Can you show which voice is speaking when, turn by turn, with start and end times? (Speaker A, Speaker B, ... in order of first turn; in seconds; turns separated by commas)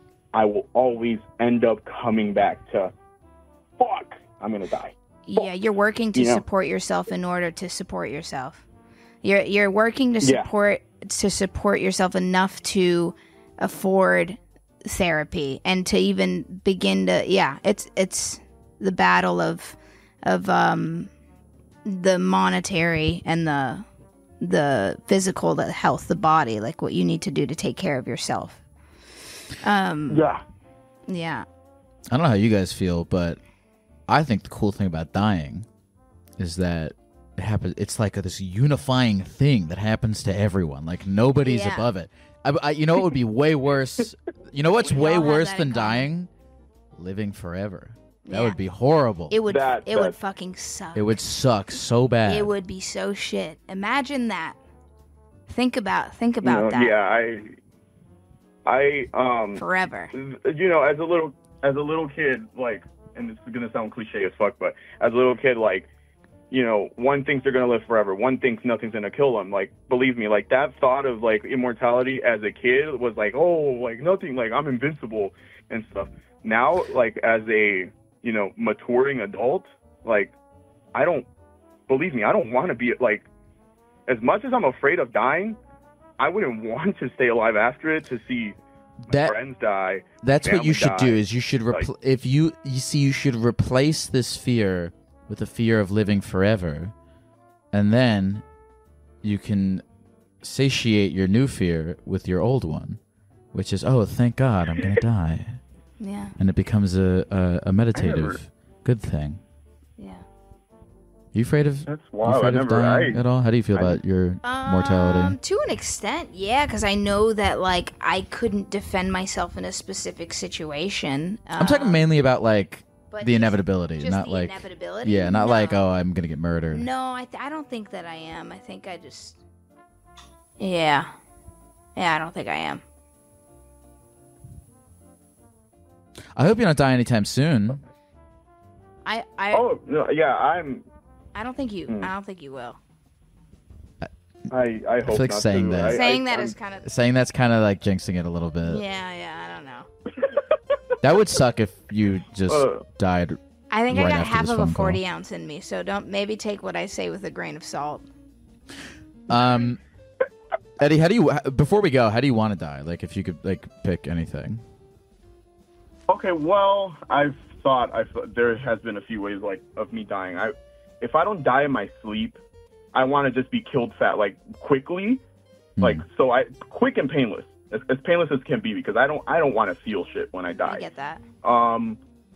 Speaker A: 0.3-2.9, Speaker A: 3.8-4.9, Speaker B: 5.3-8.6, Speaker A: 6.2-6.4, Speaker B: 9.2-21.1, Speaker A: 10.2-10.5, Speaker B: 21.9-23.9, Speaker B: 24.4-28.6, Speaker B: 29.6-30.3, Speaker A: 30.1-30.4, Speaker B: 31.1-31.5, Speaker C: 32.1-33.4, Speaker C: 34.1-35.7, Speaker C: 36.4-46.3, Speaker B: 41.4-41.9, Speaker B: 44.8-46.1, Speaker C: 47.0-49.4, Speaker B: 48.3-48.6, Speaker B: 49.3-51.2, Speaker A: 49.5-50.2, Speaker C: 51.0-52.5, Speaker B: 52.3-54.6, Speaker B: 55.5-57.0, Speaker A: 56.4-57.5, Speaker A: 58.7-65.9, Speaker B: 59.6-60.1, Speaker A: 66.5-80.3, Speaker A: 80.9-81.3, Speaker A: 81.9-83.3, Speaker A: 84.1-85.6, Speaker A: 86.2-88.6, Speaker C: 89.1-89.3, Speaker A: 89.1-91.9, Speaker C: 90.2-96.9, Speaker C: 97.7-98.4, Speaker C: 99.2-99.8, Speaker C: 100.4-103.0, Speaker C: 103.5-105.6, Speaker B: 106.0-106.3, Speaker C: 106.4-109.4, Speaker A: 108.0-108.4, Speaker B: 110.0-110.2, Speaker C: 111.3-115.4, Speaker A: 111.9-113.2, Speaker A: 113.7-114.0, Speaker B: 114.4-122.0, Speaker C: 121.6-126.9, Speaker B: 123.1-125.8, Speaker B: 126.7-129.4, Speaker B: 130.6-131.1, Speaker B: 132.0-132.8, Speaker C: 136.3-137.8, Speaker B: 139.1-139.7, Speaker A: 139.5-140.8, Speaker B: 141.3-142.8, Speaker C: 144.0-144.5, Speaker A: 144.5-146.6, Speaker C: 145.0-146.0, Speaker B: 145.9-146.9, Speaker C: 146.8-148.8, Speaker B: 148.7-149.9, Speaker C: 151.0-155.0, Speaker A: 152.5-152.8, Speaker B: 153.7-158.1, Speaker C: 159.3-159.8, Speaker A: 159.3-159.7, Speaker C: 160.8-164.6, Speaker A: 166.1-172.4, Speaker A: 172.9-175.2, Speaker C: 175.8-176.0, Speaker A: 175.8-180.9, Speaker B: 180.6-181.2, Speaker A: 181.4-182.0